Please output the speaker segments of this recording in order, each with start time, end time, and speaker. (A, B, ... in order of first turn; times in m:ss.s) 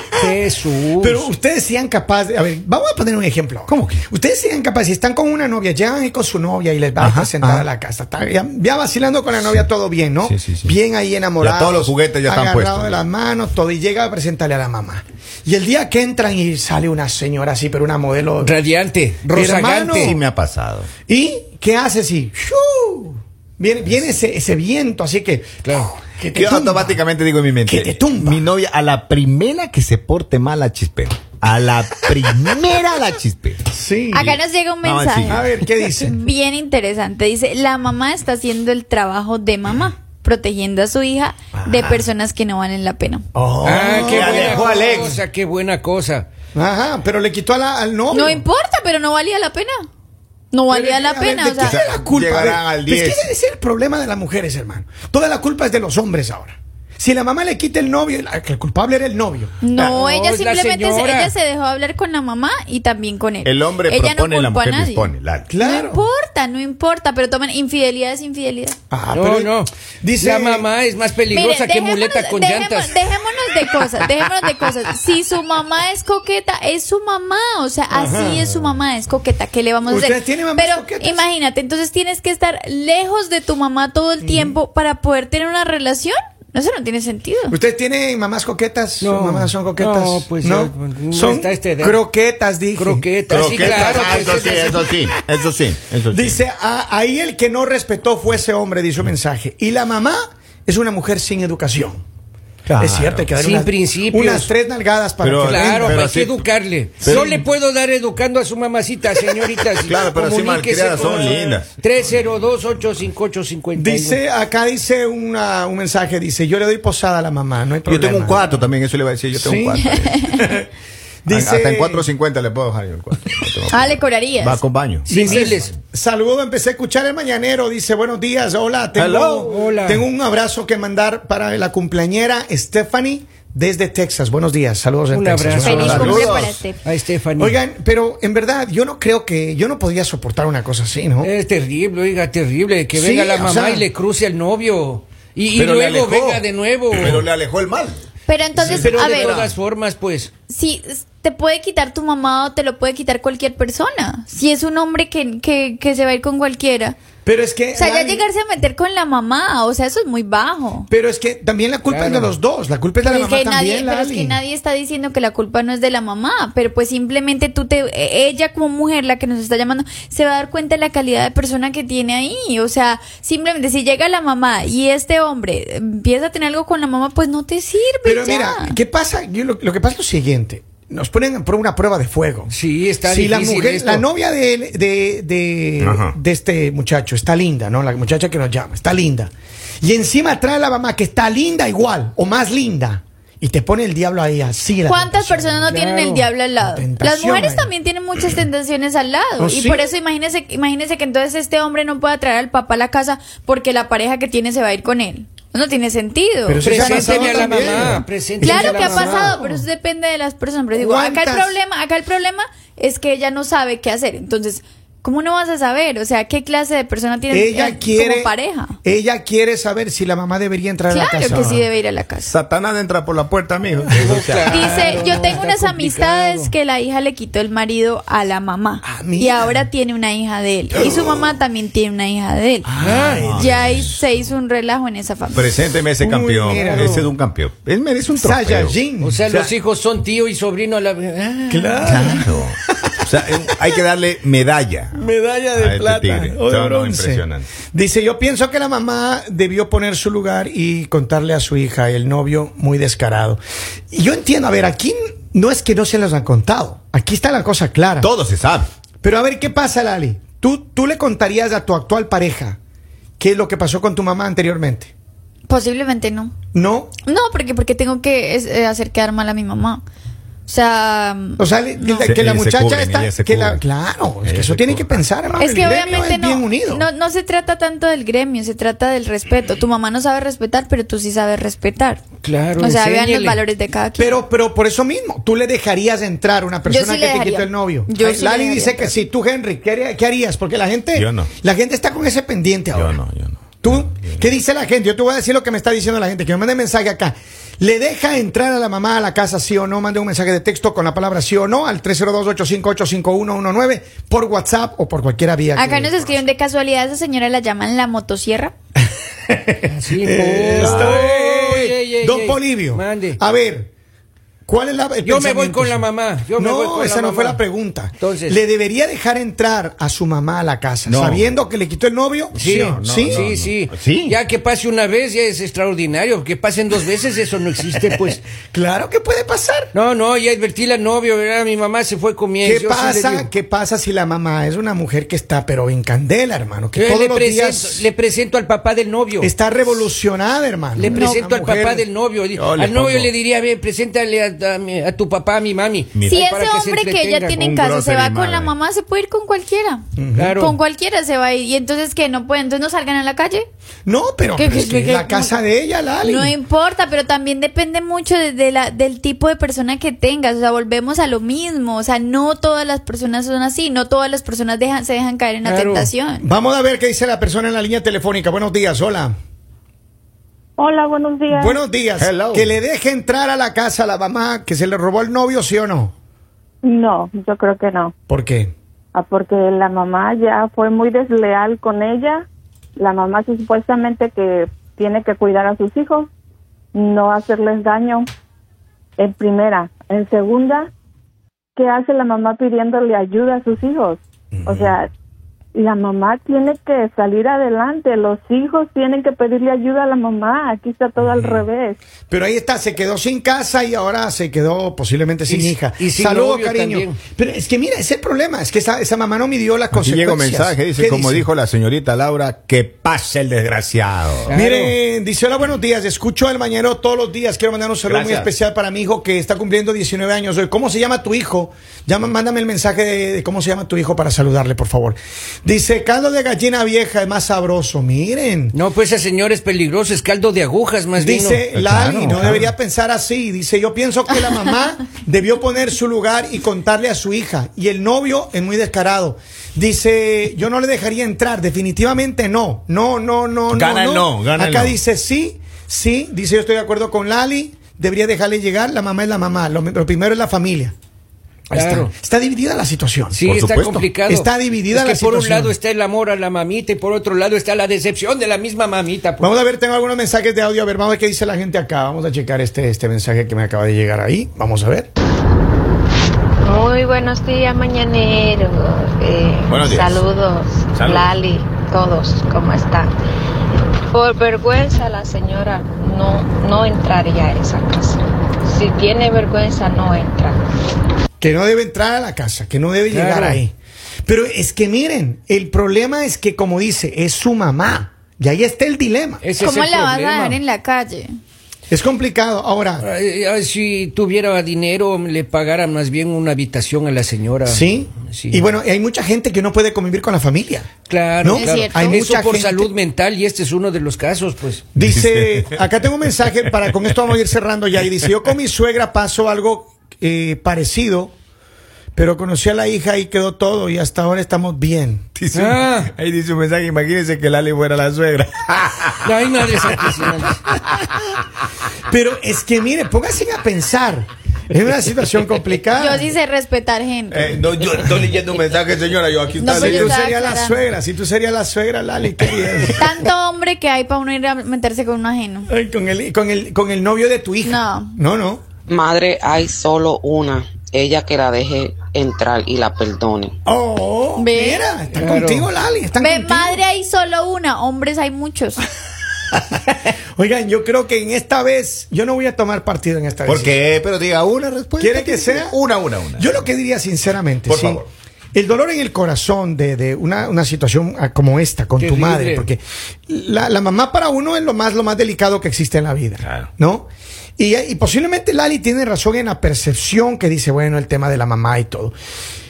0:00.1-0:01.3 A
0:01.0-0:18.5 B
0:03.7-0:04.0 C
0:07.0-0:07.7 C
0:09.4-0:09.6 C
0:10.2-0:10.7 C
0:11.4-0:13.0 C
0:18.4-0:20.2 A
0:19.3-0:20.2 B
0:20.0-0:20.9 C
0:21.0-0:27.0 B
0:26.3-0:33.6 C
0:27.6-0:28.5 B
0:33.7-0:34.4 B
0:34.1-0:43.2 D
0:34.8-0:35.4 C
0:35.2-0:36.2 B
0:41.5-0:42.1 B
0:43.3-0:45.2 B
0:43.6-0:46.2 A
0:43.8-0:45.2 C
0:46.5-0:48.4 B
0:48.1-0:49.8 D
0:50.5-0:51.8 D
0:50.7-1:00.0 B
0:51.6-0:53.3 C
0:59.6-1:08.8 D
0:59.8-1:01.3 A
1:03.4-1:05.5 C
1:05.5-1:06.0 B
1:08.9-1:10.7 B
1:09.1-1:13.0 A
1:11.3-1:27.6 D
1:17.9-1:18.5 B
1:19.8-1:21.2 B
1:24.2-1:24.6 B
1:27.5-1:35.0 B
1:29.0-1:32.0 A
1:32.7-1:34.8 A
1:33.3-1:36.4 C
1:36.1-1:42.0 B
1:42.7-1:43.2 C
1:42.7-1:46.0 B
1:43.4-1:44.5 A
1:45.2-1:46.4 C
1:45.4-1:54.2 A
1:47.0-1:47.3 C
1:47.0-1:47.5 B
1:49.8-1:52.8 C
1:50.9-1:51.5 B
1:53.7-1:58.6 B
1:57.8-2:00.3 C
1:59.3-2:00.7 B
2:01.2-2:02.1 B
2:01.3-2:05.6 C
2:03.7-2:04.6 D
2:05.1-2:16.5 B
2:05.1-2:05.7 A
2:09.0-2:09.5 C
2:09.4-2:10.0 A
2:15.1-2:17.6 A
2:15.6-2:16.8 D
2:15.7-2:16.6 C
2:17.4-2:21.3 B
2:21.2-2:27.3 A
2:22.9-2:23.8 B
2:25.5-2:28.0 C
2:28.2-2:29.4 D
2:28.5-2:29.5 C
2:28.7-2:30.3 A
2:28.7-2:29.2 B
2:30.5-2:36.9 D
2:37.2-2:38.2 B
2:37.7-2:40.9 D
2:40.9-2:44.4 B
2:41.8-2:42.3 A
2:43.0-2:58.8 D
2:58.0-3:02.5 B
3:02.5-3:04.0 A
3:03.0-3:09.3 B
3:05.8-3:06.1 C
3:09.8-3:15.8 B
3:14.8-3:27.5 D
3:15.7-3:16.3 A
3:16.6-3:17.7 B
3:19.4-3:19.9 B
3:26.4-3:29.6 B
3:26.6-3:29.4 A
3:28.4-3:38.8 D
3:30.7-3:31.6 B
3:37.3-3:41.6 B
3:40.9-3:42.3 D
3:41.2-3:41.5 C
3:42.2-3:45.0 C
3:43.9-3:46.5 A
3:44.5-3:55.5 D
3:48.8-3:49.7 B
3:52.6-3:53.7 B
3:52.8-3:53.3 A
3:53.0-3:53.9 C
3:55.3-3:59.5 C
3:56.0-3:57.1 B
3:56.5-3:57.0 A
3:58.2-3:59.2 B
3:59.0-4:02.2 A
4:01.5-4:03.0 B
4:01.8-4:05.0 C
4:05.0-4:13.4 B
4:05.6-4:07.5 C
4:13.9-4:18.1 B
4:18.0-4:18.7 C
4:19.0-4:22.6 B
4:23.2-4:24.9 B
4:25.5-4:26.3 D
4:26.5-4:26.9 B
4:27.0-4:29.8 D
4:30.5-4:32.2 D
4:31.4-4:36.9 B
4:32.0-4:33.6 C
4:34.2-4:35.0 C
4:35.3-4:42.0 D
4:42.2-4:43.4 A
4:42.6-4:44.2 D
4:44.0-4:53.0 B
4:46.6-4:48.9 D
4:50.9-4:51.3 C
4:52.7-4:54.2 C
4:53.6-5:06.2 B
5:05.5-5:08.5 D
5:09.3-5:13.7 B
5:09.6-5:13.2 A
5:10.5-5:11.0 C
5:14.4-5:23.3 B
5:15.0-5:17.4 A
5:18.0-5:18.4 A
5:20.8-5:21.3 C
5:22.3-5:28.2 A
5:22.4-5:24.2 C
5:28.5-5:29.7 B
5:29.7-5:33.3 A
5:32.4-5:37.9 B
5:36.7-5:39.3 A
5:39.2-5:41.8 B
5:40.7-5:47.4 A
5:40.8-5:41.2 D
5:42.3-5:43.1 C
5:45.9-5:46.2 C
5:46.0-5:49.8 D
5:47.4-5:48.5 C
5:50.0-5:50.4 B
5:50.2-5:50.6 A
5:50.3-5:53.4 D
5:53.8-5:56.4 B
5:54.3-5:55.3 D
5:56.0-6:06.2 D
6:05.4-6:05.9 A
6:06.2-6:09.1 B
6:10.6-6:11.6 E
6:11.3-6:15.9 B
6:12.0-6:12.5 C
6:16.6-6:17.9 E
6:18.1-6:18.5 B
6:18.9-6:22.2 E
6:22.8-6:26.1 E
6:26.7-6:28.1 E
6:29.0-6:30.7 E
6:31.6-6:34.9 E
6:34.4-6:34.7 B
6:35.5-6:41.8 E
6:41.0-6:41.4 C
6:42.1-6:51.3 B
6:45.3-6:47.0 A
6:49.7-6:54.3 C
6:54.2-6:54.7 A
6:54.3-7:08.5 B
6:57.8-6:58.3 C
7:08.5-7:11.5 A
7:11.0-7:30.7 B
7:11.5-7:12.5 C
7:23.5-7:24.8 C
7:31.5-7:33.2 B
7:31.5-7:31.9 A
7:33.1-7:39.3 A
7:33.3-7:33.8 C
7:34.0-7:35.5 B
7:39.2-7:44.9 B
7:46.5-7:52.9 F
7:49.4-7:50.1 C
7:50.7-7:51.2 C
7:53.9-8:00.4 F
8:01.2-8:03.5 B
8:02.9-8:03.4 A
8:04.0-8:09.2 B
8:09.2-8:10.4 A
8:09.4-8:11.1 D
8:11.7-8:12.8 B
8:12.8-8:18.5 A
8:17.4-8:20.7 B
8:20.9-8:24.6 A
8:21.2-8:22.7 B
8:21.3-8:22.0 D
8:24.7-8:31.1 B
8:24.8-8:25.6 C
8:32.0-8:35.1 B
8:35.2-8:39.8 C
8:35.3-8:35.9 A
8:39.0-8:40.4 A
8:40.5-8:41.0 C
8:41.8-8:46.1 B
8:45.7-8:47.4 D
8:47.1-8:49.9 C
8:49.4-8:50.6 D
8:49.4-8:53.1 B
8:52.7-8:55.5 D
8:55.5-8:58.4 B
8:57.4-8:58.0 D
8:58.7-9:03.3 G
9:03.4-9:06.6 B
9:04.2-9:04.7 D
9:04.9-9:05.5 A
9:06.0-9:08.6 D
9:10.2-9:13.6 B
9:13.2-9:16.5 C
9:14.8-9:15.6 B
9:16.1-9:17.8 B
9:17.5-9:17.9 C
9:18.3-9:31.9 B
9:21.8-9:22.5 A